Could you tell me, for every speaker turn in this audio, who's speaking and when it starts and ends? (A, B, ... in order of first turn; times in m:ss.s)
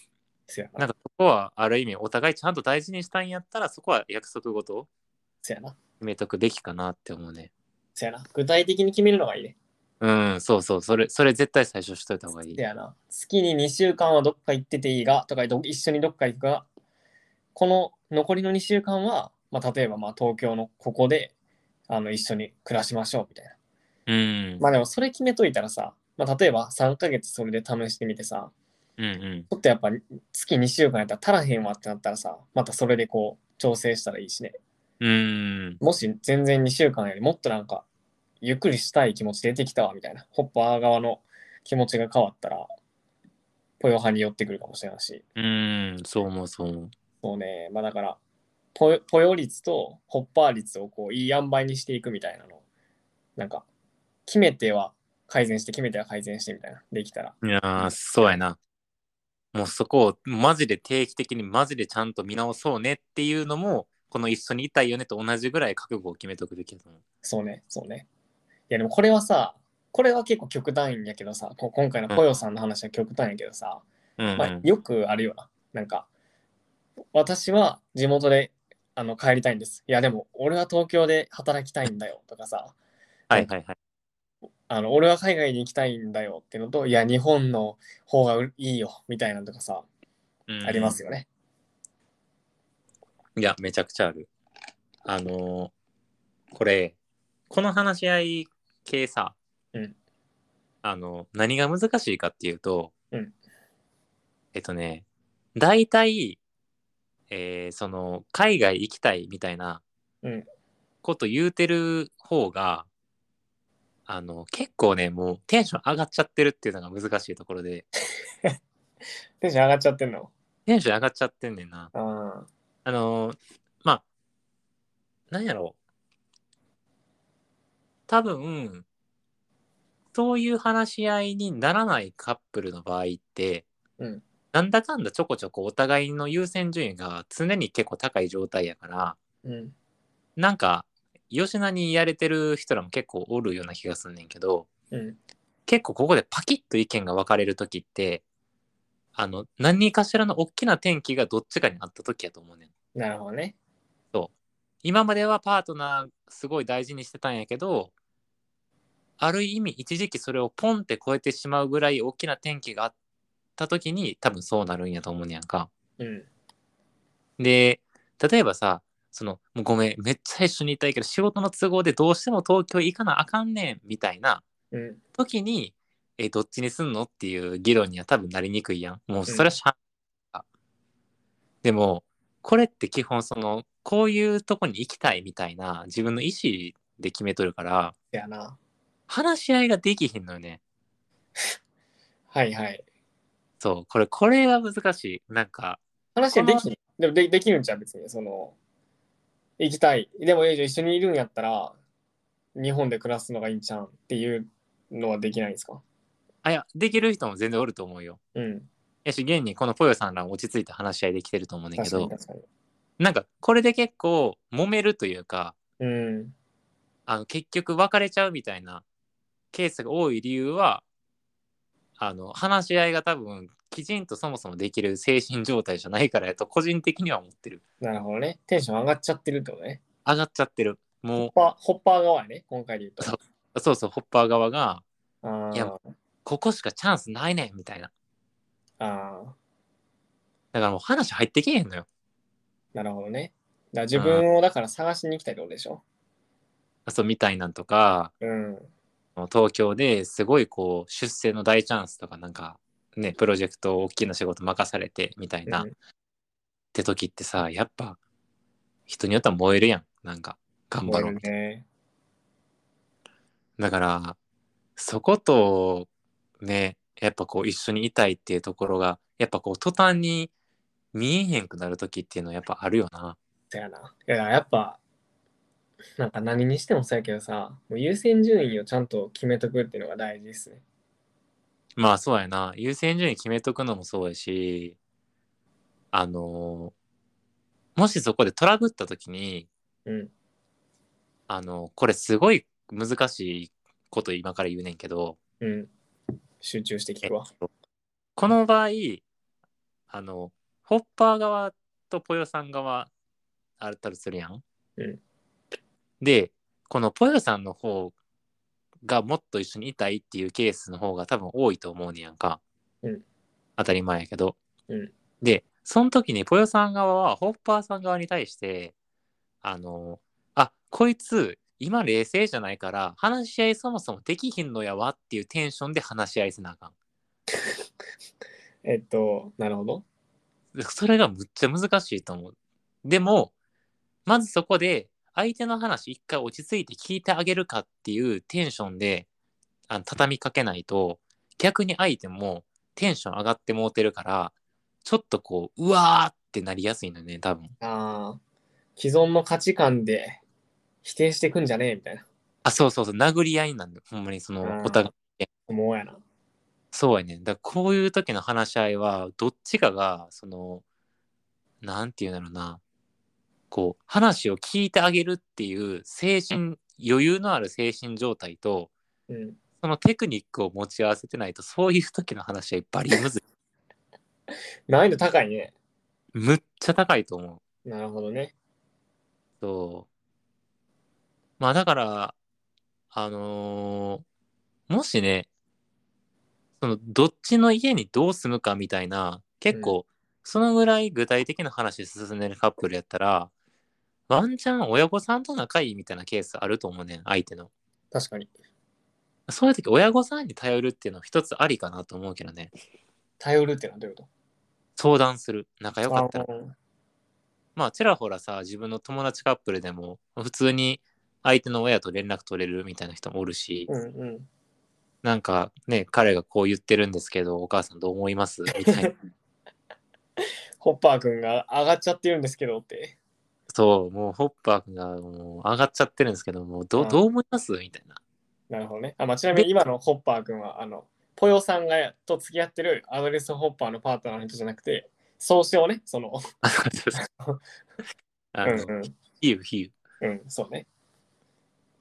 0:00.5-0:00.9 A
0:00.8-0:04.9 B
0:05.4-0:05.8 A
0:06.0-0:07.5 B
0:08.0-0:09.6 A
0:10.0-0:12.6 B
0:12.6-0:16.7 A
0:17.6-0:21.3 A
0:21.9-0:23.6 A
0:24.1-0:24.6 B
0:24.6-0:28.5 A
0:29.0-0:29.5 B
0:29.5-0:34.6 A
0:35.0-0:35.8 B
0:35.8-0:37.8 A
0:38.4-0:42.7 A
0:43.8-0:45.2 A
0:45.4-0:46.9 B
0:47.2-0:48.2 A
0:48.8-0:52.6 A
0:53.4-0:53.7 A
0:54.3-0:58.4 A
0:57.4-0:58.6 B
0:59.5-1:07.0 B
1:07.2-1:08.1 A
1:08.7-1:13.8 A
1:14.2-1:14.7 B
1:14.4-1:16.1 A
1:17.1-1:22.8 A
1:23.3-1:23.8 B
1:24.7-1:29.9 A
1:30.5-1:31.0 B
1:30.6-1:31.3 A
1:33.4-1:34.3 B
1:35.1-1:35.7 B
1:36.5-1:37.0 B
1:37.5-1:39.4 B
1:40.8-1:42.9 B
1:44.5-1:46.4 B
1:47.3-1:49.8 B
1:51.0-1:52.9 B
1:54.1-1:57.8 B
1:59.4-2:00.3 A
2:00.7-2:01.9 B
2:01.9-2:02.5 A
2:02.8-2:04.0 B
2:05.3-2:05.8 B
2:08.1-2:08.9 B
2:10.1-2:13.7 B
2:14.5-2:19.2 B
2:19.4-2:19.7 A
2:20.4-2:24.7 B
2:24.9-2:25.2 A
2:25.7-2:28.2 B
2:29.2-2:32.7 B
2:33.0-2:33.6 A
2:34.8-2:37.9 B
2:39.2-2:42.9 B
2:43.6-2:45.7 B
2:46.0-2:46.3 A
2:47.4-2:54.4 B
2:54.7-2:55.0 A
2:55.2-2:59.8 B
2:59.3-2:59.5 A
3:01.6-3:08.0 B
3:08.1-3:08.6 A
3:09.1-3:10.6 B
3:12.3-3:12.8 A
3:13.6-3:15.8 B
3:16.2-3:18.6 A
3:16.3-3:16.6 B
3:19.6-3:21.8 A
3:22.6-3:25.8 A
3:26.4-3:28.2 B
3:28.4-3:28.7 A
3:29.0-3:32.1 B
3:31.8-3:32.4 A
3:33.0-3:35.6 B
3:35.8-3:36.4 A
3:37.1-3:38.8 B
3:39.5-3:40.8 B
3:42.0-3:47.6 B
3:47.8-3:49.8 A
3:50.0-3:51.3 B
3:51.2-3:53.2 A
3:53.0-3:54.8 B
3:55.2-3:55.9 A
3:56.2-3:57.9 B
3:58.8-3:59.4 A
4:00.5-4:01.9 B
4:02.7-4:05.8 A
4:03.9-4:04.2 B
4:06.9-4:08.1 B
4:08.2-4:08.7 A
4:09.2-4:15.7 B
4:15.5-4:15.7 A
4:16.7-4:18.0 B
4:18.9-4:21.2 B
4:20.9-4:21.6 A
4:23.6-4:24.2 B
4:24.8-4:25.9 B
4:26.4-4:30.3 B
4:30.9-4:33.2 B
4:33.5-4:34.8 A
4:36.0-4:40.6 A
4:41.8-4:44.8 B
4:45.9-4:46.7 B
4:47.8-4:49.5 B
4:49.9-4:50.1 A
4:51.3-4:55.2 B
4:55.4-4:55.7 A
4:56.4-4:57.3 A
4:58.2-4:59.0 B
4:59.9-5:02.9 B
5:03.6-5:04.4 B
5:06.0-5:08.0 B
5:08.8-5:12.4 B
5:13.6-5:14.4 B
5:15.2-5:18.7 B
5:19.4-5:26.7 B
5:28.6-5:29.8 A
5:30.5-5:33.3 B
5:34.1-5:39.1 B
5:39.7-5:44.3 B
5:44.8-5:47.5 B
5:47.6-5:48.2 A
5:48.8-5:50.2 A
5:50.8-5:52.1 A
5:52.4-5:55.3 B
5:54.4-5:54.9 A
5:55.5-5:56.0 A
5:56.7-6:00.6 B
6:01.6-6:02.6 B
6:03.5-6:08.7 B
6:09.1-6:09.4 A
6:09.6-6:13.2 B
6:14.7-6:15.5 A
6:16.1-6:17.4 B
6:17.6-6:18.4 A
6:19.4-6:19.9 B
6:21.4-6:22.2 B
6:22.9-6:24.0 B
6:24.7-6:25.3 B
6:26.6-6:33.3 B
6:34.1-6:37.5 B
6:37.9-6:38.3 A
6:39.3-6:42.5 B
6:43.2-6:44.1 A
6:44.8-6:46.3 B
6:45.9-6:46.5 A
6:47.6-6:53.7 B
6:53.7-6:54.3 A
6:55.0-6:58.9 B
6:58.6-6:58.9 A
7:00.6-7:03.0 A
7:03.5-7:08.0 B
7:06.8-7:07.0 A
7:08.5-7:16.2 A
7:09.3-7:09.6 B
7:16.4-7:17.0 B
7:17.0-7:17.4 A
7:18.3-7:19.8 B
7:18.4-7:18.9 A
7:20.0-7:20.7 A